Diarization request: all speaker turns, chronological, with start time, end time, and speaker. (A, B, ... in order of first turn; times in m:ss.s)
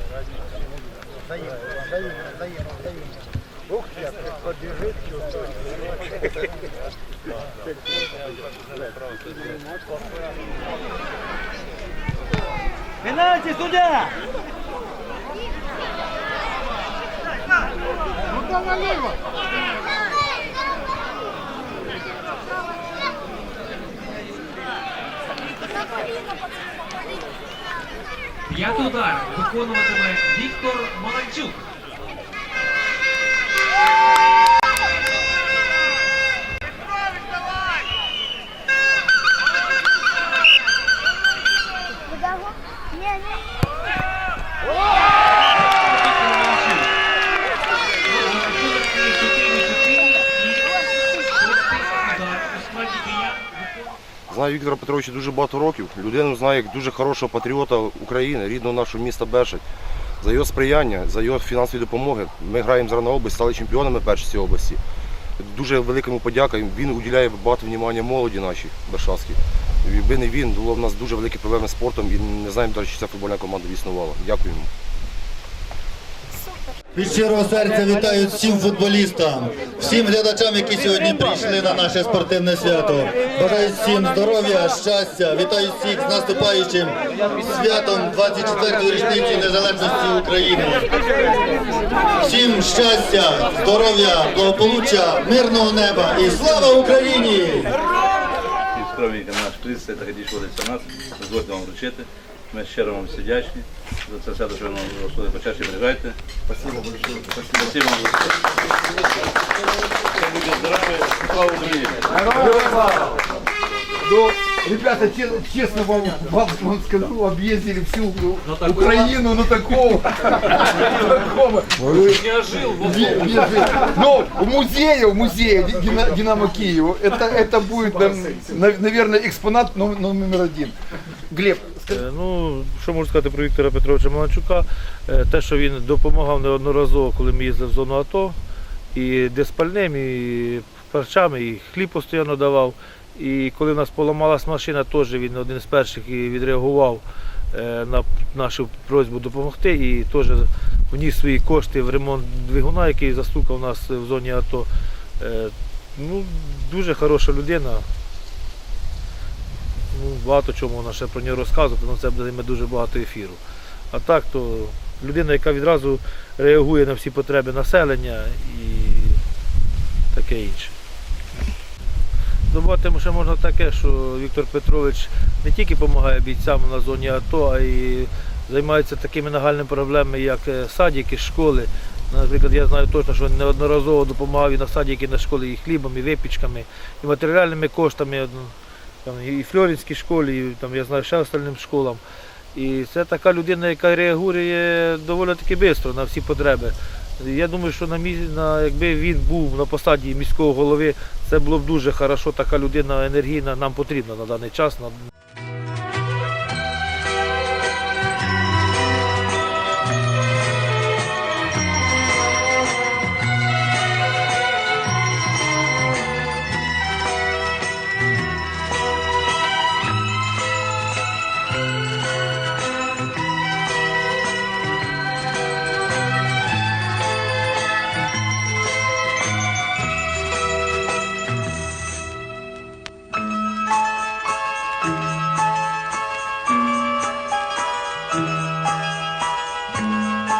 0:28.5-0:31.6 A
0:45.6-0:46.9 A
0:48.0-0:53.9 A
0:54.3-0:59.6 B
1:00.2-1:04.8 B
1:05.4-1:14.7 B
1:16.9-1:30.9 C
1:32.2-1:37.7 C
1:38.7-1:46.2 D
1:46.7-1:47.0 E
1:47.2-1:48.4 D
1:50.2-1:52.2 D
1:52.3-1:53.0 E
1:54.0-2:10.7 E
2:02.1-2:03.4 A
2:11.3-2:12.0 E
2:11.9-2:18.4 F
2:18.9-2:37.8 F
2:39.9-2:43.4 F
2:43.9-2:49.2 F
2:50.1-2:50.7 F
2:52.5-3:08.5 F
3:09.0-3:12.0 F
3:12.5-3:25.0 F